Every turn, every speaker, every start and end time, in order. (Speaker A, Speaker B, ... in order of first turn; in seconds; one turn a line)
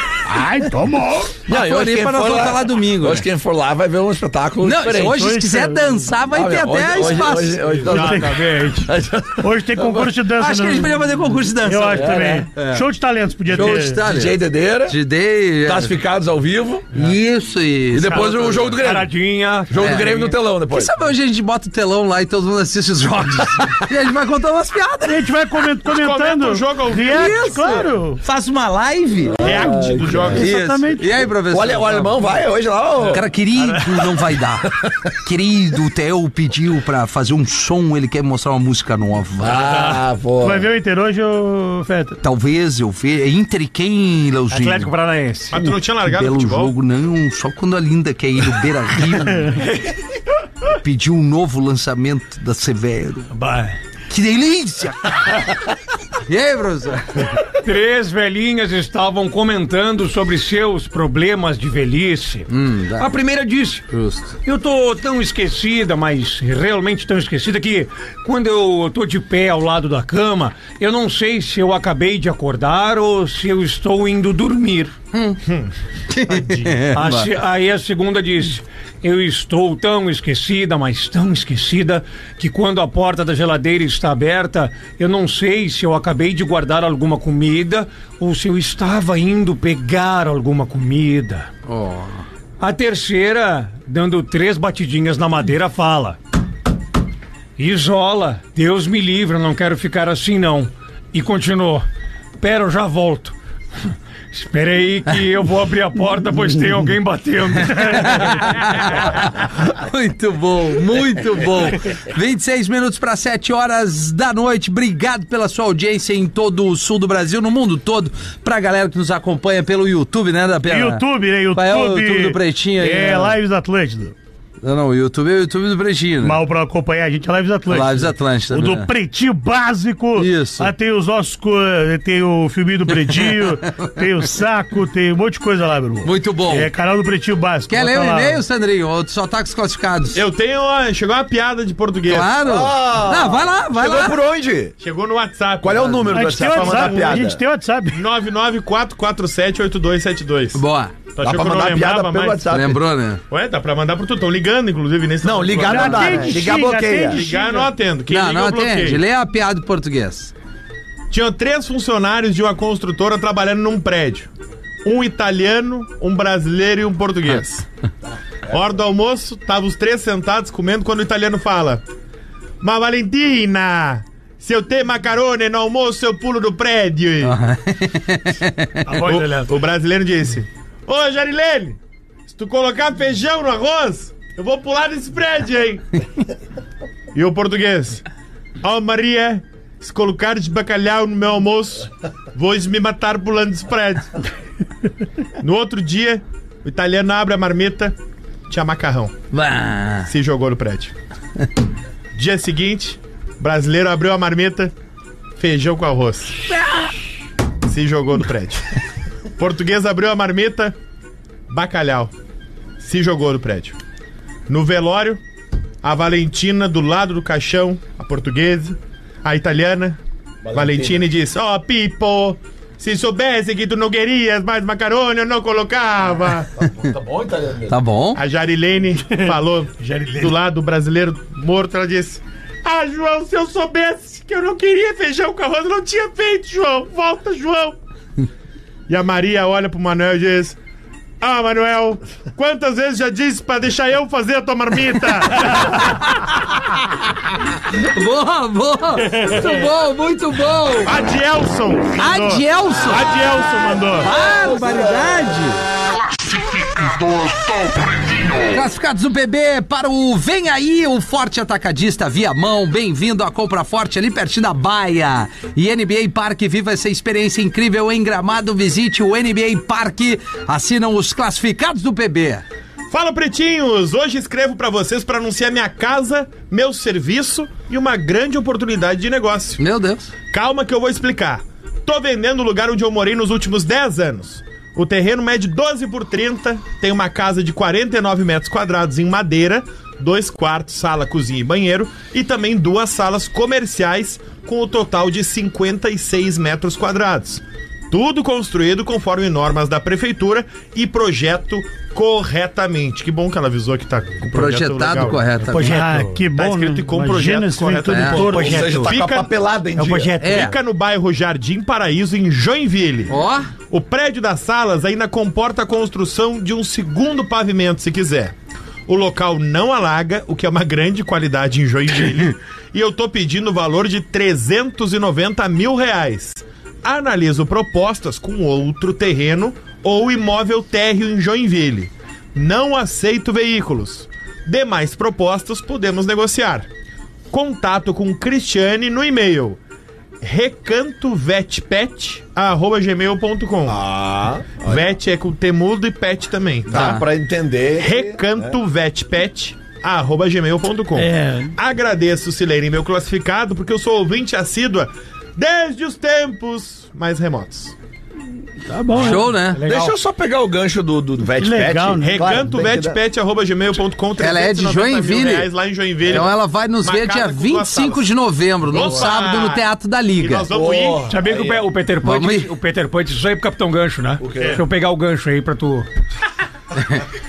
Speaker A: 0.3-1.4
Speaker B: 1.5-5.2
Speaker C: 1.5-3.2
Speaker C: 4.6-7.8
Speaker A: 5.1-6.0
Speaker B: 6.3-10.1
Speaker D: 7.8-8.9
Speaker A: 7.9-8.5
Speaker A: 9.4-11.0
Speaker C: 10.4-12.8
Speaker A: 11.6-14.0
Speaker B: 11.9-12.4
Speaker C: 13.5-16.0
Speaker B: 13.5-15.0
Speaker B: 15.6-16.9
Speaker C: 16.9-18.5
Speaker B: 17.9-19.1
Speaker D: 18.1-20.3
Speaker B: 19.7-20.9
Speaker C: 19.8-25.3
Speaker A: 25.1-28.2
Speaker E: 25.9-27.4
Speaker C: 27.1-29.5
Speaker B: 29.4-30.5
Speaker E: 29.4-30.4
Speaker C: 30.3-32.4
Speaker A: 30.3-31.1
Speaker B: 31.5-33.3
Speaker C: 33.1-39.7
Speaker B: 39.4-40.7
Speaker D: 39.6-40.0
Speaker A: 40.4-42.2
Speaker C: 42.2-44.9
Speaker D: 44.5-45.7
Speaker E: 45.5-46.7
Speaker C: 46.0-49.6
Speaker D: 49.5-49.9
Speaker C: 50.7-53.3
Speaker D: 53.3-53.8
Speaker C: 54.1-55.5
Speaker C: 56.3-57.4
Speaker D: 57.6-63.9
Speaker C: 62.5-63.1
Speaker C: 63.9-64.4
Speaker D: 64.4-75.0
Speaker E: 75.5-75.7
Speaker C: 76.1-77.3
Speaker E: 76.3-76.8
Speaker D: 76.9-91.5
Speaker C: 91.7-92.3
Speaker D: 92.6-96.2
Speaker D: 97.6-101.9
Speaker D: 102.4-103.3
Speaker D: 103.9-108.6
Speaker C: 107.7-123.4
Speaker A: 120.7-124.2
Speaker C: 124.6-126.4
Speaker A: 126.2-138.4
Speaker C: 127.7-128.9
Speaker C: 130.2-130.7
Speaker C: 133.1-134.0
Speaker C: 136.0-136.7
Speaker C: 137.7-140.2
Speaker E: 140.1-142.3
Speaker C: 142.1-144.2
Speaker B: 142.4-144.8
Speaker E: 144.8-147.2
Speaker B: 145.6-147.4
Speaker A: 146.1-148.0
Speaker E: 147.9-150.6
Speaker C: 150.6-150.9
Speaker E: 151.2-152.5
Speaker B: 151.2-152.8
Speaker C: 152.5-153.2
Speaker E: 153.3-156.5
Speaker B: 155.2-157.3
Speaker A: 155.6-157.7
Speaker E: 157.1-159.0
Speaker C: 158.1-160.3
Speaker E: 161.1-164.3
Speaker E: 164.8-167.7
Speaker E: 168.5-171.8
Speaker E: 172.6-177.4
Speaker C: 177.2-178.9
Speaker D: 178.9-179.5
Speaker E: 178.9-186.0
Speaker E: 187.1-188.0
Speaker E: 188.6-194.1
Speaker E: 195.4-198.0
Speaker E: 198.5-199.2
Speaker C: 199.3-200.1
Speaker E: 200.1-200.9
Speaker E: 202.2-204.7
Speaker E: 205.4-206.4
Speaker E: 207.7-208.7
Speaker E: 209.4-210.8
Speaker E: 211.5-212.1
Speaker E: 212.8-213.8
Speaker E: 214.5-215.2
Speaker E: 215.8-220.0
Speaker B: 220.4-221.1
Speaker E: 220.5-226.5
Speaker B: 226.6-227.8
Speaker C: 227.7-228.2
Speaker E: 228.2-237.8
Speaker D: 229.9-230.3
Speaker E: 238.9-240.6
Speaker E: 241.2-246.1
Speaker C: 247.7-251.0
Speaker E: 250.8-254.1
Speaker C: 252.0-253.3
Speaker C: 254.0-255.6
Speaker B: 254.5-255.1
Speaker C: 258.4-272.4
Speaker E: 272.9-279.6
Speaker C: 279.6-280.1
Speaker E: 280.3-305.4
Speaker C: 304.2-305.8
Speaker D: 305.5-306.2
Speaker A: 305.5-308.8
Speaker E: 306.4-309.3
Speaker C: 307.9-308.2
Speaker D: 308.2-308.9
Speaker B: 308.3-310.2
Speaker D: 309.8-310.5
Speaker C: 310.2-310.6
Speaker E: 310.2-313.2
Speaker C: 313.1-313.5
Speaker E: 313.7-318.3
Speaker E: 318.9-336.7
Speaker E: 337.3-339.6
Speaker E: 340.2-343.8
Speaker B: 343.7-344.9
Speaker E: 344.6-347.0
Speaker B: 346.7-348.6
Speaker C: 346.7-347.0
Speaker E: 347.8-357.7
Speaker A: 351.0-351.5
Speaker A: 358.7-359.3
Speaker C: 359.0-359.7
Speaker D: 359.0-359.9
Speaker B: 359.6-363.0
Speaker A: 361.4-362.6
Speaker E: 362.0-368.1
Speaker C: 364.2-365.5
Speaker C: 366.0-370.5
Speaker E: 368.6-371.1
Speaker B: 370.5-371.6
Speaker D: 371.1-375.9
Speaker C: 372.0-372.5
Speaker B: 374.2-374.6